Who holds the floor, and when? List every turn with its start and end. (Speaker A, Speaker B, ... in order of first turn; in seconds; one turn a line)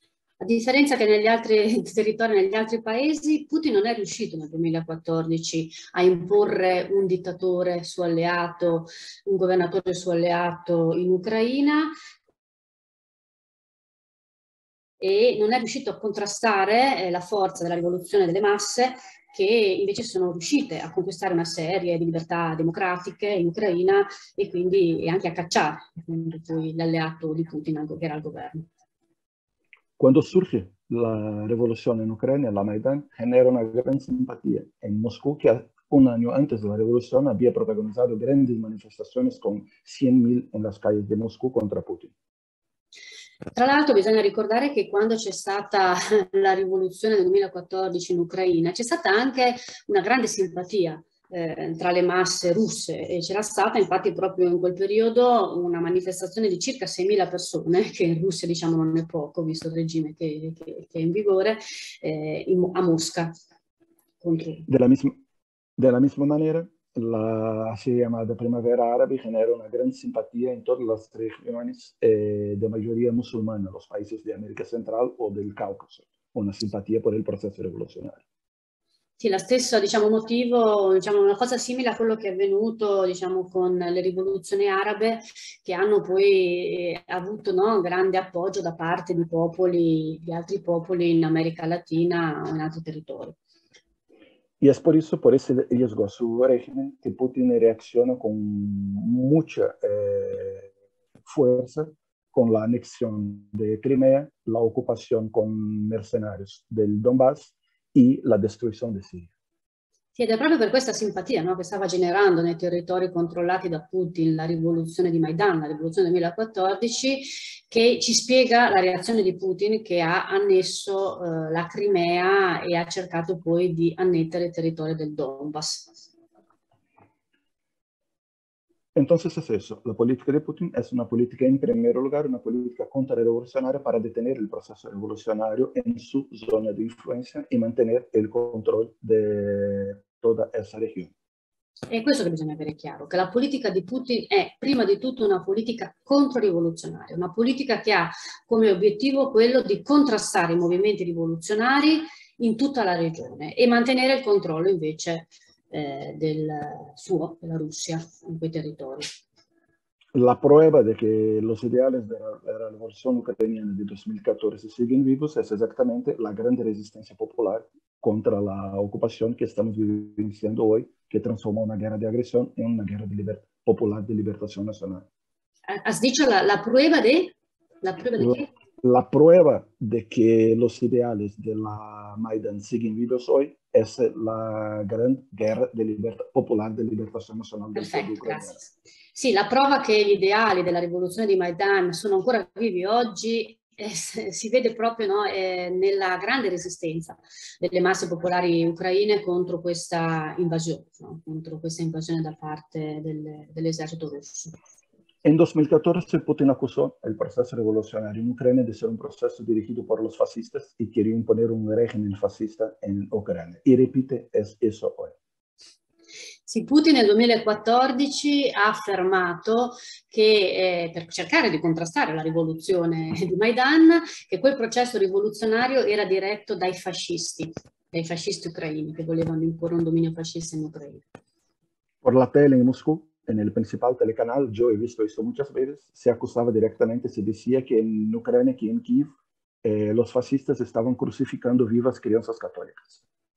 Speaker A: 0.4-11.9
Speaker A: 15.0-28.7
Speaker B: 30.0-42.1
Speaker A: 43.5-63.3
Speaker A: 64.2-64.7
Speaker B: 64.7-65.2
Speaker B: 65.8-78.2
Speaker A: 79.2-93.4
Speaker B: 94.6-100.7
Speaker B: 101.3-109.3
Speaker A: 110.2-125.9
Speaker B: 128.9-141.1
Speaker A: 141.9-159.2
Speaker B: 160.2-175.1
Speaker A: 175.7-178.5
Speaker B: 178.2-188.6
Speaker A: 187.8-204.6
Speaker B: 205.2-215.2
Speaker A: 216.5-231.0
Speaker B: 232.0-243.0